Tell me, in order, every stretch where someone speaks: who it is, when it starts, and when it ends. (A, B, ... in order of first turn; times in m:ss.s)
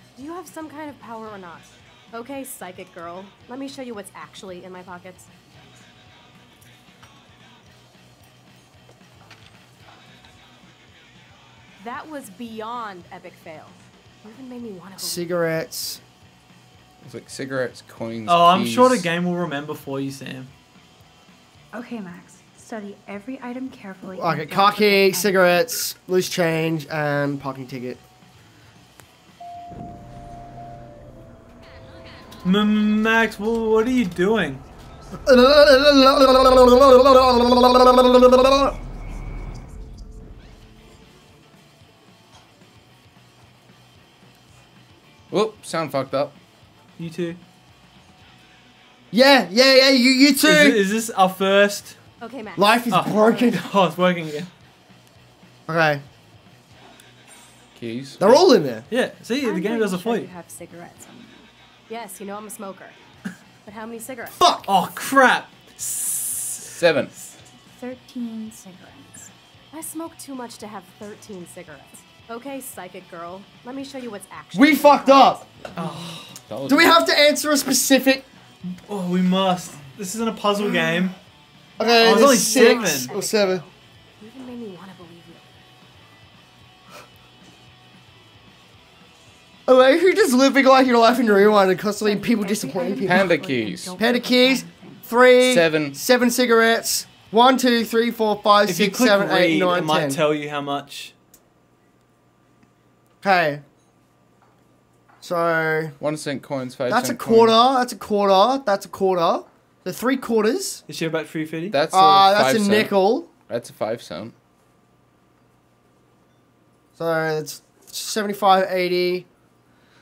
0:00.2-0:05.3 A
0:11.8-0:15.3 A
0:15.0-0:16.0 B
0:17.0-0:19.1 C
0:18.2-0:20.5 D
0:21.7-0:25.6 E
0:24.2-0:28.0 B
0:32.4-0:34.6 D
0:35.2-0:38.8 B
0:45.3-0:46.4 C
0:47.0-0:47.4 D
0:49.1-0:50.8 B
0:50.4-0:52.0 D
0:52.2-0:53.5 A
0:52.6-0:53.6 B
0:52.9-0:54.5 D
0:55.7-0:56.0 B
0:57.7-0:58.3 C
0:58.2-0:58.8 B
0:58.9-1:00.3 D
0:59.4-1:01.5 E
1:01.9-1:03.0 A
1:03.6-1:04.4 A
1:04.4-1:04.7 B
1:04.7-1:06.7 D
1:06.6-1:07.1 C
1:07.7-1:09.3 E
1:09.7-1:15.4 A
1:14.5-1:16.1 B
1:15.8-1:16.4 D
1:16.5-1:16.9 C
1:16.7-1:18.2 B
1:18.8-1:21.2 D
1:21.8-1:23.6 B
1:21.8-1:25.5 A
1:22.0-1:23.1 D
1:29.7-1:33.3 B
1:31.2-1:35.1 E
1:33.0-1:34.0 C
1:34.0-1:40.2 B
1:35.4-1:36.0 C
1:38.6-1:41.1 D
1:43.2-1:43.6 B
1:45.2-1:46.0 B
1:46.0-1:47.6 C
1:46.9-1:50.8 B
1:50.9-1:51.8 D
1:51.7-1:54.3 C
1:51.9-1:53.3 B
1:57.0-1:59.2 B